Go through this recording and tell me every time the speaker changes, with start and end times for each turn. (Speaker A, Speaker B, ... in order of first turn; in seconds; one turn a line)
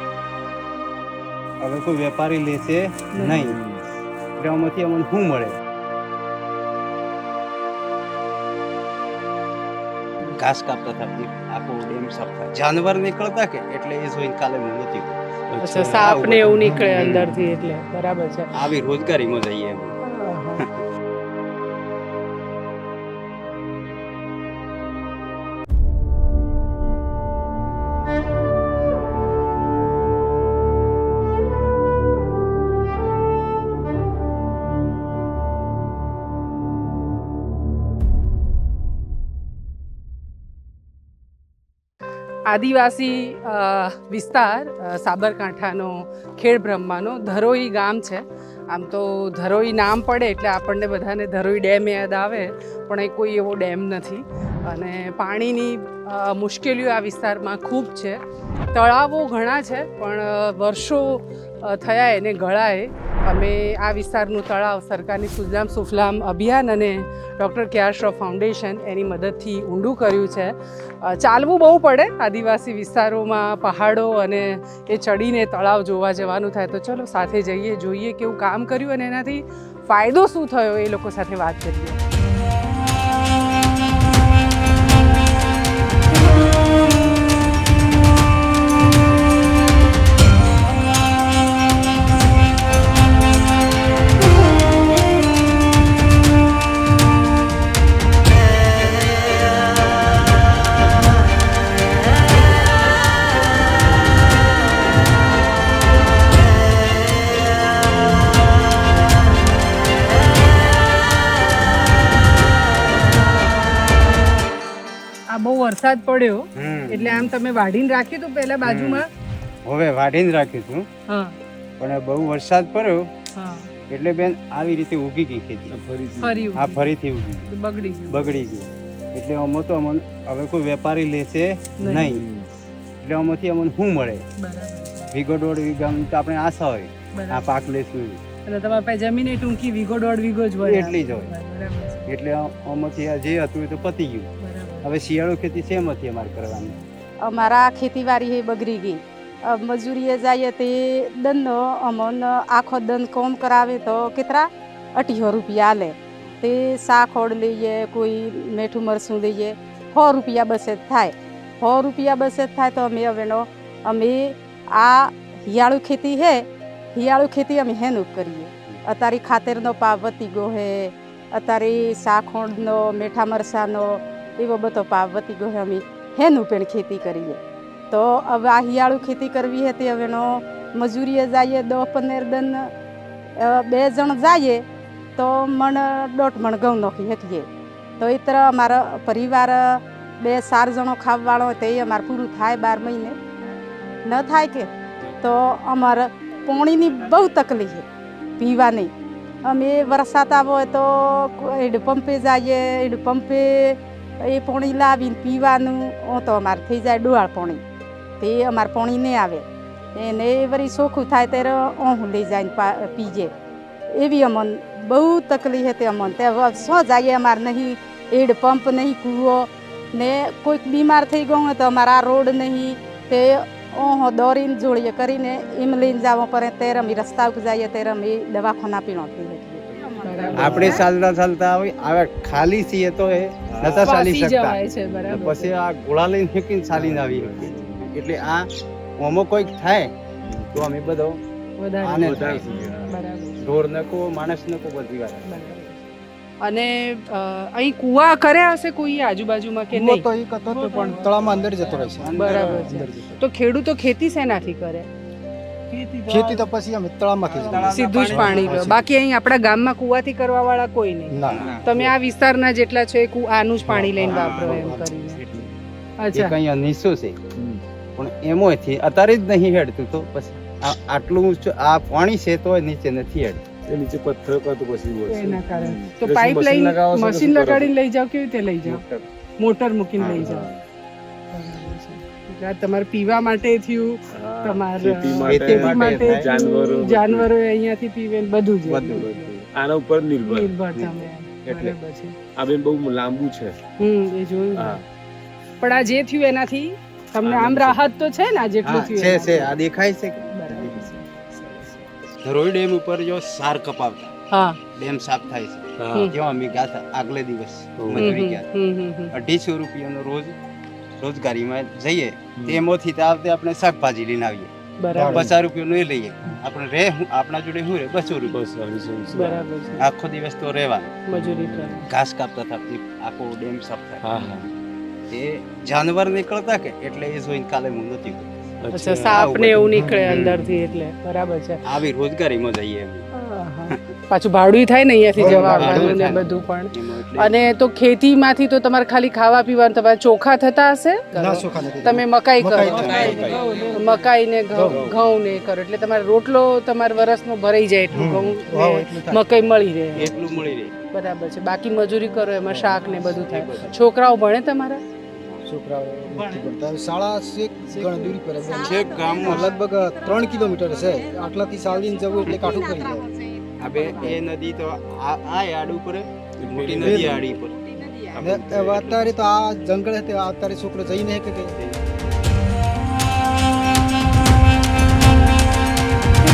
Speaker A: 1.6-3.6
Speaker B: 3.1-3.4
Speaker C: 3.4-3.8
Speaker A: 4.4-5.6
Speaker A: 10.3-15.2
Speaker C: 15.5-16.0
Speaker B: 15.6-18.6
Speaker A: 15.8-17.4
Speaker D: 16.5-17.0
Speaker A: 18.5-19.9
Speaker B: 20.1-20.6
Speaker B: 42.5-58.2
Speaker B: 58.7-82.0
Speaker B: 115.3-119.1
Speaker A: 116.6-117.3
Speaker A: 118.6-119.0
Speaker A: 119.7-120.9
Speaker B: 121.1-121.3
Speaker A: 121.8-123.1
Speaker B: 123.4-123.7
Speaker A: 123.9-125.7
Speaker C: 125.7-126.4
Speaker B: 126.2-126.9
Speaker A: 126.6-127.4
Speaker B: 127.5-128.4
Speaker A: 128.1-132.2
Speaker B: 131.8-132.1
Speaker C: 131.9-132.5
Speaker A: 133.0-134.2
Speaker B: 134.4-135.1
Speaker A: 135.1-138.2
Speaker B: 137.1-137.4
Speaker B: 138.5-142.1
Speaker A: 140.6-141.3
Speaker A: 142.1-144.3
Speaker B: 144.4-144.9
Speaker A: 144.8-146.8
Speaker E: 147.2-182.7
Speaker E: 183.4-184.7
Speaker E: 185.2-187.5
Speaker E: 188.0-193.2
Speaker E: 194.1-197.9
Speaker E: 198.4-207.6
Speaker E: 208.2-213.3
Speaker E: 213.9-230.8
Speaker B: 230.0-230.9
Speaker C: 230.3-230.8
Speaker A: 230.3-234.6
Speaker C: 233.5-233.9
Speaker B: 233.8-235.5
Speaker A: 235.1-238.5
Speaker C: 236.7-237.8
Speaker A: 239.0-239.9
Speaker C: 240.3-240.6
Speaker A: 240.5-241.2
Speaker B: 241.6-243.4
Speaker A: 241.8-242.5
Speaker C: 242.0-243.0
Speaker A: 243.4-245.5
Speaker B: 245.2-254.9
Speaker D: 249.7-253.2
Speaker A: 251.8-252.7
Speaker B: 255.7-256.5
Speaker D: 256.1-258.9
Speaker A: 257.3-258.9
Speaker B: 257.5-265.2
Speaker D: 261.1-261.9
Speaker A: 261.3-261.7
Speaker D: 263.6-264.9
Speaker A: 264.0-264.8
Speaker B: 266.0-266.4
Speaker A: 266.1-267.2
Speaker C: 267.4-267.6
Speaker A: 267.9-273.4
Speaker C: 273.7-277.7
Speaker B: 275.1-278.8
Speaker C: 278.6-279.1
Speaker B: 279.4-280.5
Speaker A: 280.0-280.2
Speaker C: 280.1-280.6
Speaker B: 281.3-289.4
Speaker C: 284.1-287.3
Speaker A: 285.2-286.3
Speaker C: 288.7-290.6
Speaker B: 290.2-292.2
Speaker C: 291.4-291.7
Speaker C: 292.4-293.6
Speaker B: 293.8-294.8
Speaker C: 294.6-294.8
Speaker B: 295.6-299.6
Speaker C: 297.2-297.8
Speaker A: 298.6-300.9
Speaker B: 300.3-301.0
Speaker C: 300.6-300.9
Speaker A: 302.2-304.1
Speaker B: 304.3-304.6
Speaker A: 304.8-308.5
Speaker C: 305.8-306.1
Speaker C: 307.8-308.2
Speaker B: 307.9-309.1
Speaker A: 309.1-310.4
Speaker A: 311.0-314.5
Speaker B: 314.8-315.2
Speaker D: 314.9-315.3
Speaker A: 315.1-318.4
Speaker C: 318.3-319.5
Speaker B: 319.1-319.9
Speaker A: 319.8-321.0
Speaker B: 321.1-321.9
Speaker C: 321.1-321.9
Speaker A: 321.9-324.1
Speaker C: 324.0-324.5
Speaker A: 325.1-328.3
Speaker C: 328.6-329.1
Speaker B: 328.7-331.6
Speaker A: 328.9-330.6
Speaker D: 329.7-330.2
Speaker C: 330.2-330.9
Speaker A: 331.7-333.1
Speaker B: 333.2-350.1
Speaker D: 335.2-336.1
Speaker A: 335.2-337.4
Speaker D: 341.1-343.4
Speaker A: 342.6-343.3
Speaker C: 342.7-343.9
Speaker D: 344.5-344.9
Speaker C: 344.6-345.0
Speaker D: 347.9-349.2
Speaker A: 349.9-350.7
Speaker B: 350.9-354.8
Speaker A: 352.5-353.8
Speaker A: 355.1-355.4
Speaker D: 355.5-363.1
Speaker A: 356.1-356.5
Speaker B: 357.7-358.2
Speaker E: 358.4-364.2
Speaker A: 358.6-359.6
Speaker A: 363.6-367.5
Speaker B: 363.8-364.1
Speaker C: 366.4-367.4
Speaker D: 366.8-367.2
Speaker E: 367.8-368.2
Speaker C: 368.2-368.9
Speaker D: 368.2-371.6
Speaker A: 368.4-369.1